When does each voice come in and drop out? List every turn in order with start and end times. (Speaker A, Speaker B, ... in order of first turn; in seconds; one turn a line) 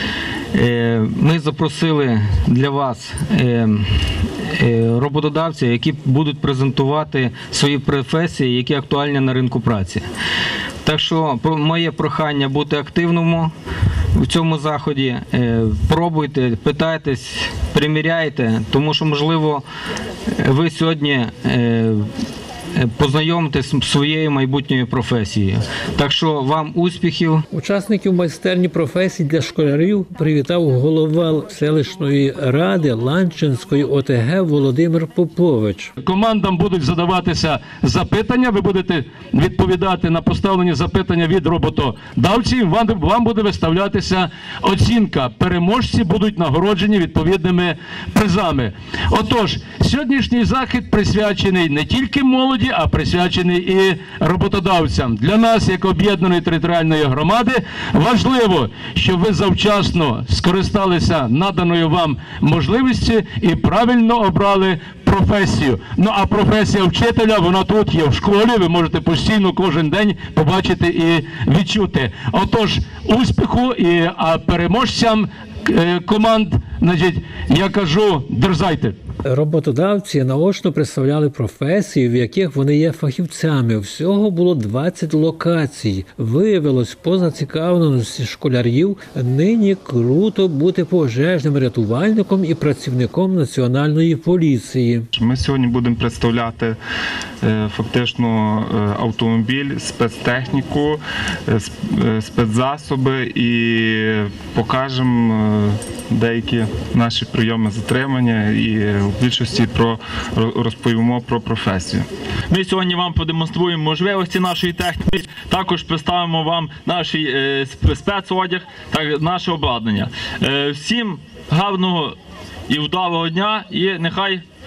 Speaker A: 0.5-10.0
Speaker A: 10.8-13.5
Speaker A: 14.1-19.6
Speaker A: 20.4-22.1
Speaker A: 22.7-27.4
Speaker B: 27.5-35.9
Speaker C: 36.0-78.9
Speaker B: 79.2-95.1
Speaker D: 95.1-96.8
Speaker D: 97.4-112.0
Speaker E: 112.5-122.2
Speaker E: 122.7-124.4